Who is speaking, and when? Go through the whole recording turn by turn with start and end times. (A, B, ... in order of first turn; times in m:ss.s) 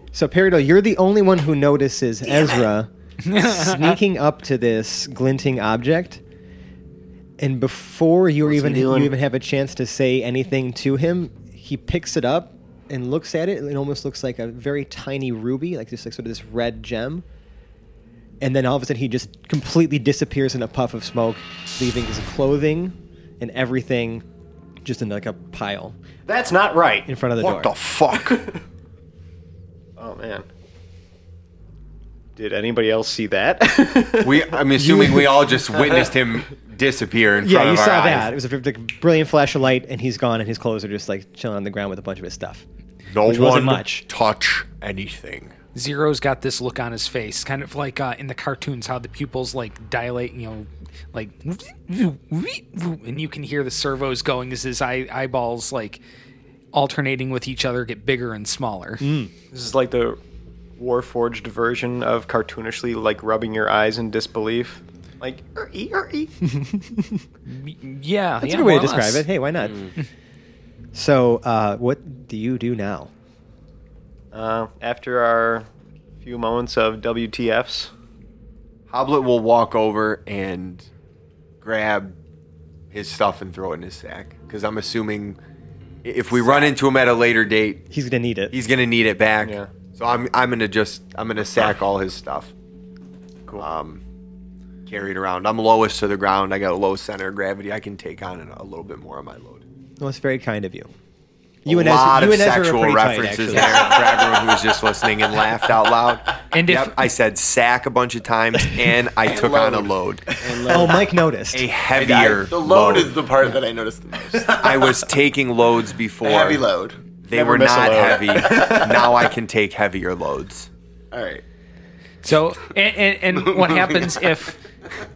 0:00.1-0:06.2 A
0:02.2-0:02.7 B
0:03.2-0:03.9 C
0:07.4-0:17.2 A
0:08.5-0:09.1 D
0:18.4-0:24.2 A
0:24.8-0:26.0 A
0:26.2-0:27.1 D
0:27.1-0:27.7 A
0:27.4-0:28.5 E
0:28.1-0:28.6 D
0:30.0-0:30.5 D
0:32.4-0:34.5 D
0:34.2-0:38.3 E
0:34.8-0:35.5 A
0:35.7-0:36.2 D
0:37.4-0:42.6 A
0:43.0-0:45.5 E
0:43.2-0:44.0 A
0:45.7-0:56.0 C
0:56.7-0:59.1 C
0:59.0-0:59.3 A
0:59.5-1:00.2 D
1:00.8-1:06.5 D
1:07.5-1:09.3 C
1:08.4-1:09.9 A
1:10.9-1:13.1 A
1:14.3-1:15.7 D
1:16.2-1:17.9 D
1:18.9-1:20.9 E
1:21.6-1:22.2 E
1:22.9-1:25.4 E
1:26.0-1:27.8 E
1:26.3-1:26.7 D
1:27.9-1:28.6 A
1:28.5-1:32.5 E
1:29.4-1:29.7 D
1:33.5-1:34.0 E
1:34.8-1:39.6 E
1:40.0-1:40.9 A
1:41.6-1:44.0 A
1:41.6-1:50.9 E
1:44.0-1:44.4 B
1:46.5-1:47.1 C
1:49.2-1:51.0 B
1:50.7-1:51.7 A
1:51.5-1:53.2 E
1:51.9-1:55.0 B
1:54.4-1:56.6 E
1:56.2-1:57.0 B
1:57.2-2:00.7 E
1:57.3-1:59.2 D
2:01.1-2:01.4 B
2:02.2-2:04.6 C
2:03.3-2:04.3 B